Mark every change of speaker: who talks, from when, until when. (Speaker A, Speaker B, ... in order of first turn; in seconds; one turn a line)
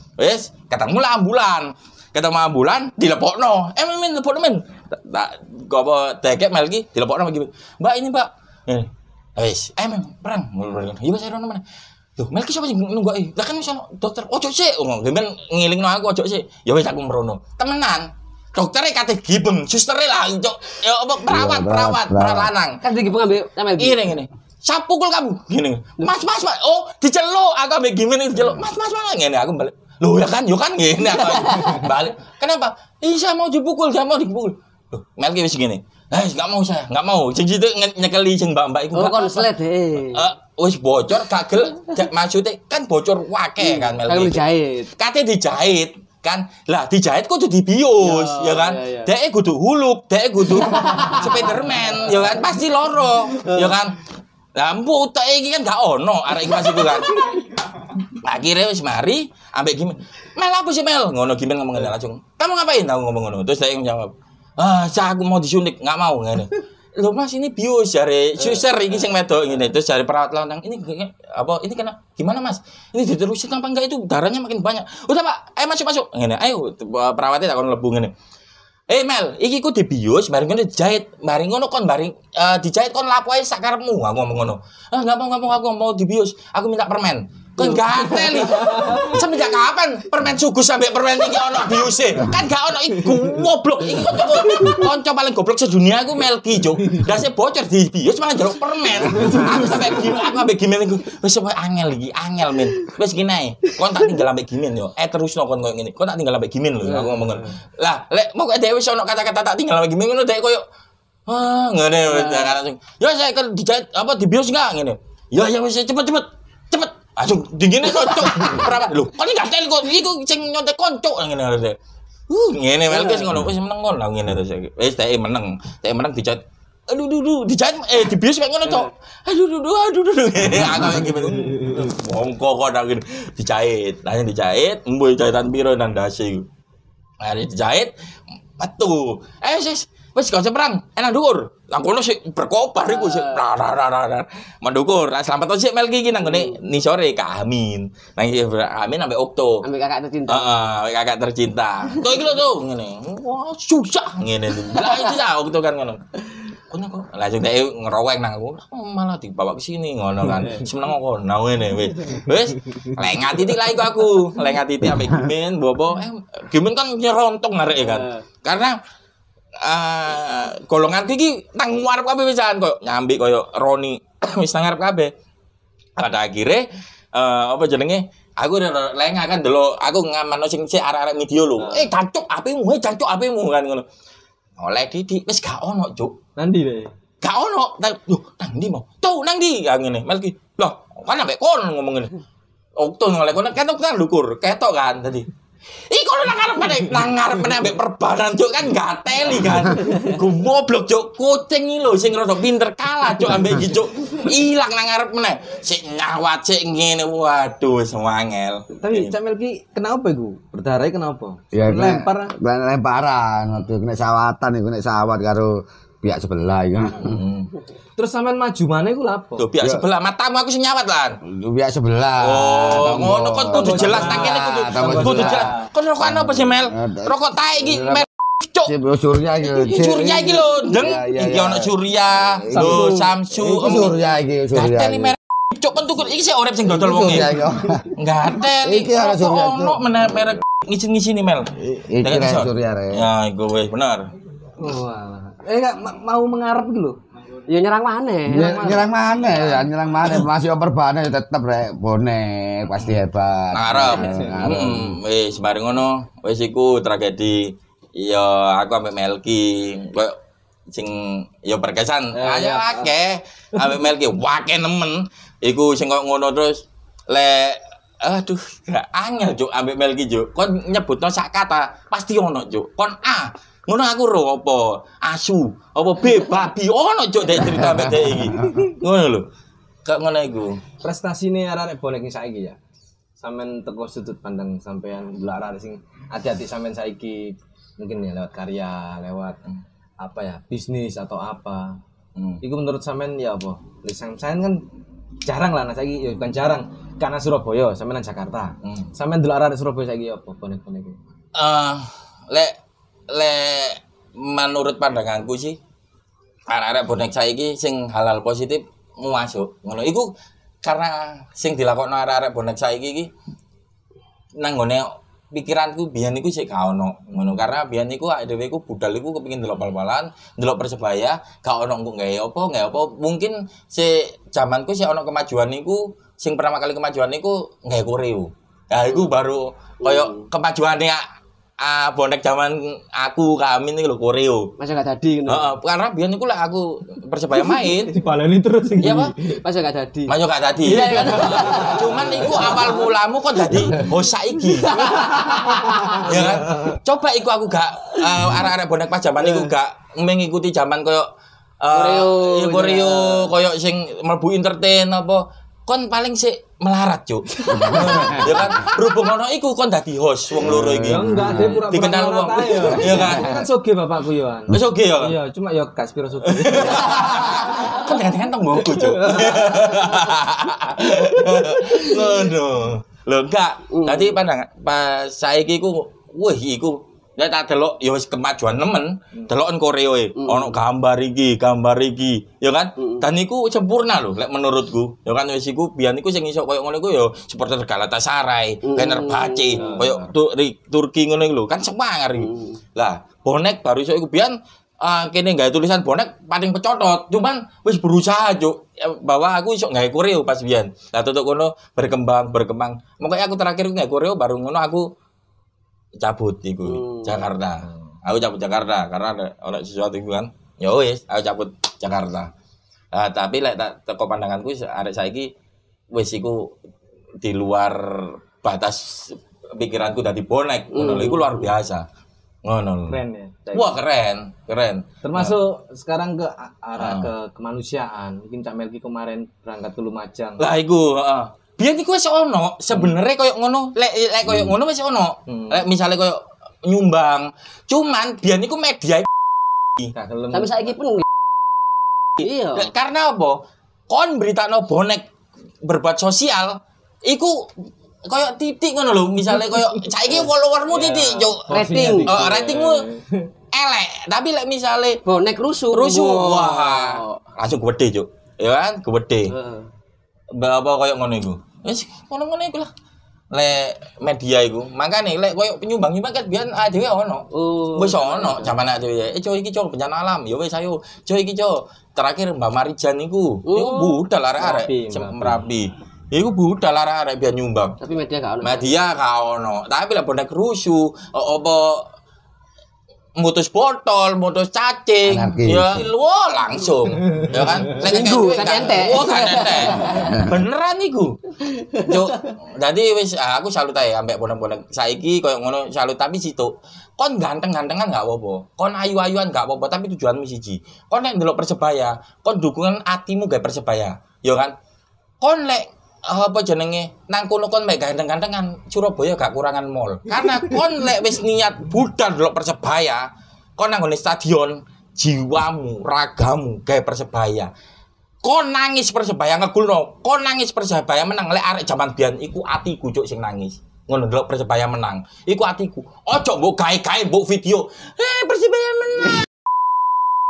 Speaker A: 0.2-11.6
Speaker A: 12.2-22.8
Speaker B: 21.3-22.5
Speaker C: 22.8-24.0
Speaker A: 23.8-39.5
Speaker C: 31.2-31.9
Speaker C: 38.9-40.2
Speaker A: 40.0-44.4
Speaker C: 43.7-44.9
Speaker A: 45.0-54.0
Speaker C: 48.0-49.1
Speaker C: 50.7-51.2
Speaker C: 53.5-53.7
Speaker A: 54.5-57.2
Speaker C: 56.5-57.2
Speaker A: 58.1-78.1
Speaker A: 78.9-110.6
Speaker C: 87.6-89.1
Speaker D: 88.7-89.2
Speaker D: 99.1-99.9
Speaker D: 107.0-107.4
Speaker A: 111.3-121.8
Speaker C: 112.1-112.6
Speaker A: 122.3-136.5
Speaker C: 122.9-123.3
Speaker A: 137.2-137.9
Speaker A: 138.6-149.7
Speaker C: 142.9-143.4
Speaker C: 146.2-146.6
Speaker C: 149.6-150.8
Speaker A: 150.3-156.0
Speaker A: 156.7-168.8
Speaker C: 167.8-168.2
Speaker A: 169.6-175.1
Speaker A: 176.0-183.9
Speaker D: 181.6-181.9
Speaker A: 184.6-186.2
Speaker D: 186.4-186.9
Speaker A: 187.2-192.1
Speaker A: 192.8-195.3
Speaker A: 195.9-209.2
Speaker D: 208.8-212.3
Speaker B: 211.5-217.2
Speaker A: 217.0-217.5
Speaker D: 218.0-219.5
Speaker A: 219.4-221.2
Speaker B: 219.6-219.8
Speaker B: 221.2-225.5
Speaker A: 222.2-228.7
Speaker D: 223.5-225.7
Speaker B: 226.0-228.1
Speaker B: 228.7-231.7
Speaker A: 229.7-234.0
Speaker B: 232.4-235.1
Speaker C: 232.6-233.1
Speaker A: 234.5-237.4
Speaker B: 236.7-237.9
Speaker A: 237.9-244.1
Speaker B: 238.5-239.8
Speaker B: 241.6-243.1
Speaker D: 244.6-247.0
Speaker C: 247.5-248.8
Speaker D: 248.3-249.7
Speaker B: 248.3-255.0
Speaker A: 253.5-260.2
Speaker D: 254.0-254.6
Speaker A: 260.7-279.3
Speaker D: 262.1-262.9
Speaker B: 277.4-278.6
Speaker A: 279.9-280.6
Speaker D: 280.8-282.6
Speaker D: 283.2-289.4
Speaker D: 290.0-291.8
Speaker A: 292.2-292.4
Speaker D: 292.4-294.6
Speaker D: 295.2-301.0
Speaker A: 298.6-298.9
Speaker A: 301.4-302.6
Speaker A: 303.1-305.6
Speaker A: 306.5-310.1
Speaker A: 310.6-313.1
Speaker A: 314.4-331.0
Speaker C: 329.8-330.2
Speaker A: 331.6-334.5
Speaker C: 334.6-335.5
Speaker A: 335.3-337.9
Speaker D: 337.7-339.4
Speaker A: 338.8-339.1
Speaker C: 339.4-342.8
Speaker A: 340.1-351.1
Speaker D: 340.6-342.8
Speaker C: 344.6-346.1
Speaker D: 345.1-346.8
Speaker A: 351.6-363.4
Speaker C: 351.7-353.3
Speaker B: 357.6-358.3
Speaker C: 357.6-357.9
Speaker B: 360.4-361.6
Speaker D: 360.7-367.7
Speaker A: 364.5-365.2
Speaker A: 366.3-404.9
Speaker D: 368.6-370.1
Speaker D: 371.5-371.9
Speaker C: 373.7-374.2
Speaker C: 380.2-380.6
Speaker C: 388.6-389.8
Speaker D: 389.6-390.1
Speaker C: 392.2-392.6
Speaker A: 406.0-412.3
Speaker C: 406.7-407.3
Speaker A: 412.9-415.3
Speaker A: 415.9-416.6
Speaker A: 417.2-421.9
Speaker C: 420.7-421.5
Speaker A: 422.4-423.0
Speaker D: 422.9-423.8
Speaker A: 423.5-425.4
Speaker D: 425.0-430.4
Speaker A: 426.8-427.1
Speaker A: 430.4-439.1
Speaker D: 435.3-435.6
Speaker D: 439.9-440.8
Speaker C: 440.3-441.0
Speaker A: 442.2-445.1
Speaker C: 442.2-442.7
Speaker A: 445.6-447.5
Speaker A: 448.1-452.9
Speaker D: 450.1-453.3
Speaker C: 451.5-452.4
Speaker A: 453.5-455.0
Speaker C: 455.1-457.2
Speaker A: 455.7-459.3
Speaker C: 459.3-459.7
Speaker A: 460.3-462.7
Speaker A: 463.3-477.8
Speaker C: 467.3-468.6
Speaker C: 473.5-474.0
Speaker D: 474.4-475.4
Speaker C: 477.8-478.7
Speaker A: 478.4-481.9
Speaker A: 483.2-491.2
Speaker B: 485.1-485.9
Speaker D: 487.2-487.7
Speaker C: 487.7-490.2
Speaker A: 491.8-504.5
Speaker A: 505.2-517.5
Speaker A: 518.2-529.3